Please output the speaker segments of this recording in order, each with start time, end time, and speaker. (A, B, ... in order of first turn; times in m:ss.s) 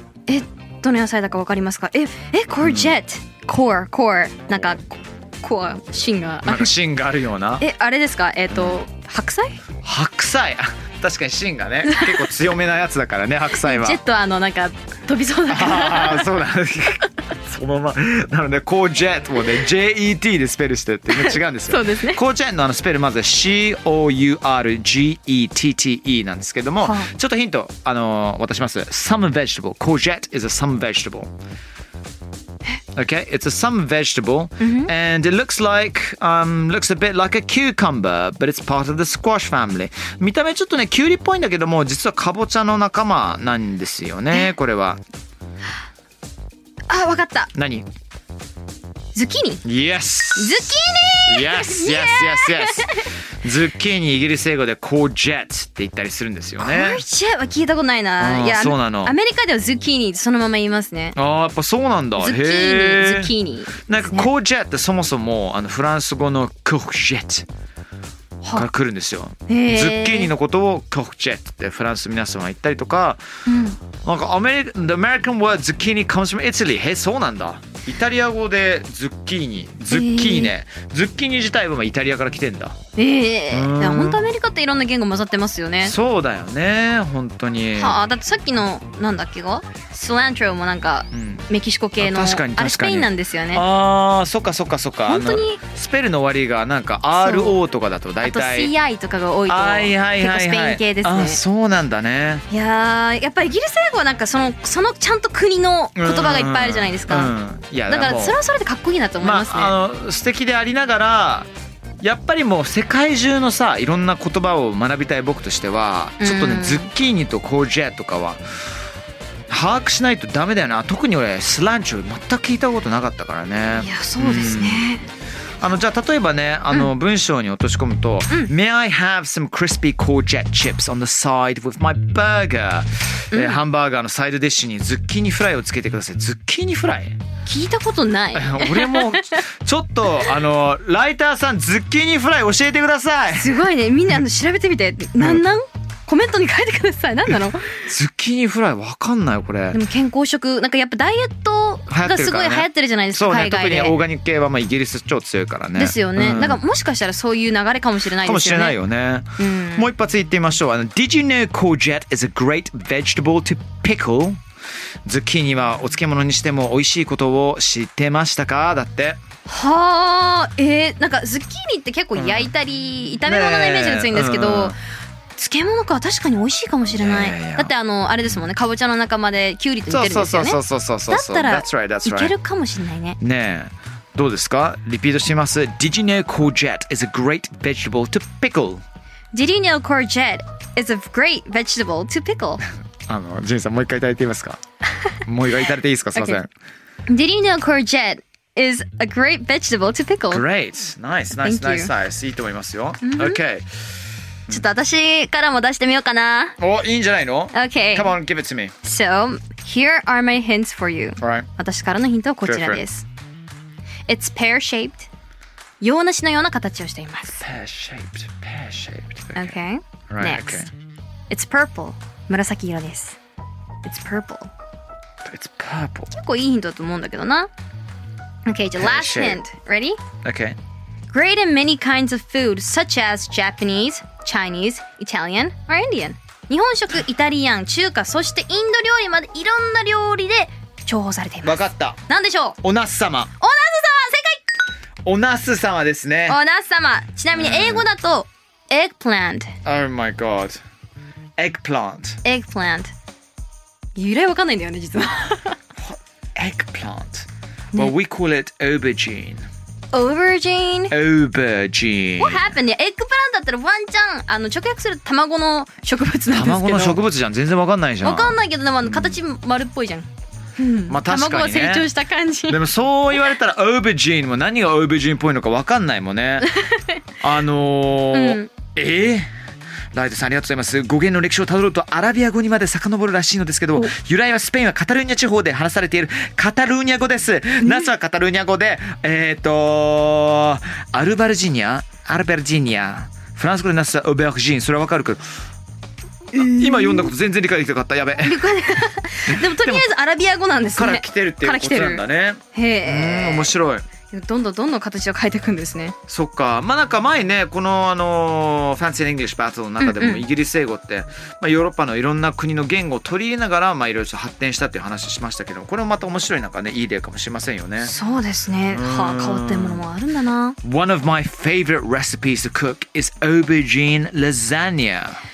0:00.3-0:06.7 A
0:02.6-0:03.0 B
0:04.5-0:04.8 B
0:06.4-0:07.6 B
0:07.6-0:09.6 A
0:08.5-0:08.8 B
0:09.8-0:14.0 B
0:11.8-0:12.2 A
0:13.5-0:16.4 A
0:15.5-0:31.3 B
0:21.1-0:22.2 A
0:26.8-0:27.1 A
0:32.9-0:45.0 B
0:34.6-0:34.9 A
0:46.9-0:47.5 A
0:47.5-0:47.8 B
0:49.1-0:49.6 A
0:49.6-0:50.7 B
0:50.3-0:53.1 A
0:51.2-0:57.0 B
0:56.6-1:01.2 A
0:58.2-0:59.2 B
1:01.1-1:03.3 B
1:02.2-1:04.3 A
1:03.9-1:07.4 B
1:08.4-1:08.7 A
1:08.5-1:13.2 B
1:09.5-1:10.3 A
1:13.4-1:13.8 A
1:14.0-1:22.8 B
1:19.9-1:20.5 A
1:23.0-1:25.9 A
1:23.5-1:24.3 B
1:25.8-1:28.0 B
1:27.8-1:33.6 A
1:31.1-1:38.7 B
1:35.0-1:35.6 A
1:37.2-1:37.6 A
1:38.2-1:41.4 A
1:39.4-1:42.4 B
1:42.5-1:47.3 A
1:46.0-1:48.4 B
1:47.9-1:49.7 A
1:49.2-1:51.5 B
1:52.0-1:58.4 B
1:56.2-1:56.9 A
1:59.5-2:04.9 B
2:03.7-2:05.0 A
2:05.6-2:17.2 B
2:13.3-2:13.6 A
2:17.4-2:19.4 A
2:18.3-2:23.6 B
2:23.3-2:27.8 A
2:25.2-2:25.4 B
2:27.8-2:29.8 B
2:29.7-2:34.0 A
2:31.9-2:36.6 B
2:35.7-2:38.8 A
2:38.2-2:44.4 B
2:39.4-2:39.9 A
2:45.0-2:49.2 B
2:49.4-2:54.8 A
2:52.1-2:52.5 B
2:53.2-2:54.8 B
2:55.4-3:03.2 A
2:56.9-2:57.7 B
2:59.9-3:02.3 B
3:03.2-3:08.8 B
3:09.3-3:12.6 A
3:13.1-3:14.6 B
3:15.2-3:16.5 B
3:16.1-3:16.4 A
3:17.1-3:20.4 A
3:20.3-3:23.7 B
3:21.4-3:21.9 A
3:23.0-3:23.4 A
3:24.5-3:26.6 A
3:26.6-3:28.7 B
3:27.5-3:28.2 A
3:28.8-3:33.0 A
3:31.2-3:31.5 B
3:32.4-3:32.8 B
3:34.1-3:35.1 A
3:35.8-3:37.4 A
3:37.4-3:39.6 B
3:39.3-3:40.7 A
3:40.1-3:40.7 B
3:41.3-3:43.2 A
3:43.8-3:44.5 A
3:45.2-3:46.1 B
3:46.1-3:47.5 A
3:48.4-3:50.0 A
3:48.8-3:49.4 B
3:50.2-3:50.6 B
3:51.1-4:02.6 A
4:01.4-4:02.0 B
4:02.6-4:03.3 B
4:03.4-4:04.4 A
4:05.0-4:06.4 B
4:06.3-4:09.5 A
4:07.3-4:07.9 B
4:09.6-4:10.6 B
4:11.4-4:12.2 B
4:12.2-4:12.9 A
4:13.9-4:15.6 A
4:15.8-4:19.5 B
4:19.9-4:20.9 A
4:20.9-4:22.6 B
4:22.2-4:27.0 A
4:26.3-4:29.2 B
4:28.0-4:32.6 A
4:30.9-4:31.9 B
4:32.5-4:36.5 B
4:37.2-4:39.3 B
4:38.1-4:38.5 A
4:39.9-4:55.2 B
4:47.6-4:47.9 A
4:56.3-4:57.1 A
4:56.3-4:58.5 B
4:58.2-5:02.0 A
4:59.3-4:59.8 B
5:00.8-5:03.8 B
5:02.5-5:03.5 A
5:04.1-5:06.0 A
5:06.1-5:17.9 B
5:09.8-5:10.2 A
5:17.8-5:20.6 A
5:18.7-5:19.8 B
5:20.6-5:25.2 B